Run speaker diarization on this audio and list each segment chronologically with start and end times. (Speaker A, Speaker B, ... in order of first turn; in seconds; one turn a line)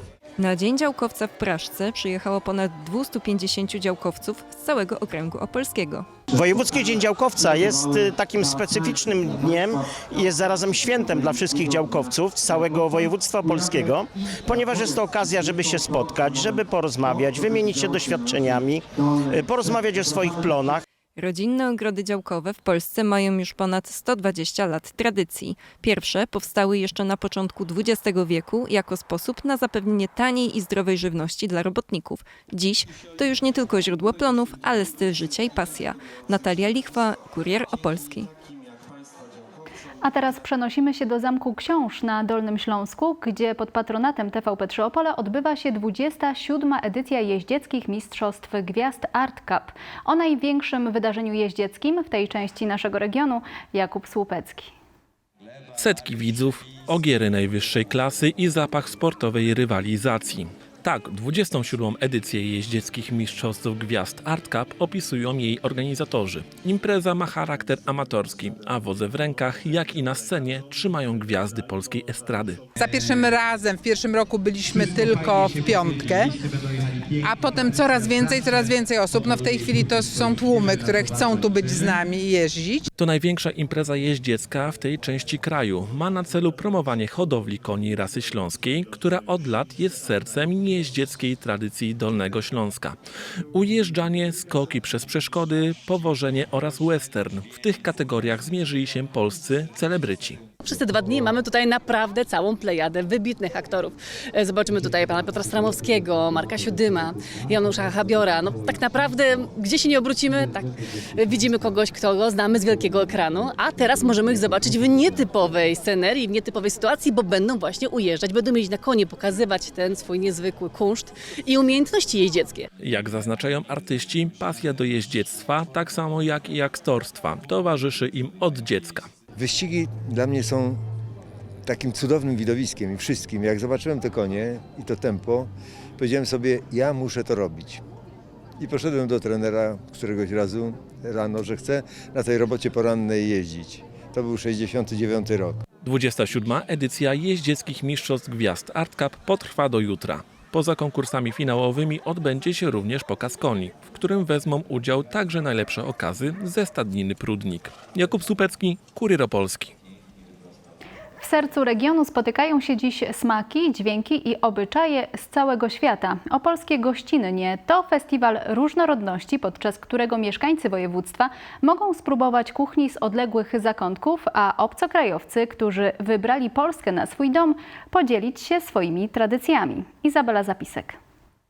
Speaker A: 0.4-6.1
Speaker B: 6.3-20.8
Speaker A: 21.1-38.3
Speaker C: 40.0-54.7
Speaker D: 55.7-72.6
Speaker E: 72.8-76.3
Speaker E: 77.2-82.8
Speaker D: 83.0-93.0
Speaker D: 93.5-100.4
Speaker F: 100.6-122.6
Speaker D: 122.8-129.1
Speaker G: 129.3-130.8
Speaker G: 131.6-137.8
Speaker G: 138.6-145.6
Speaker D: 145.8-159.7
Speaker C: 161.2-181.0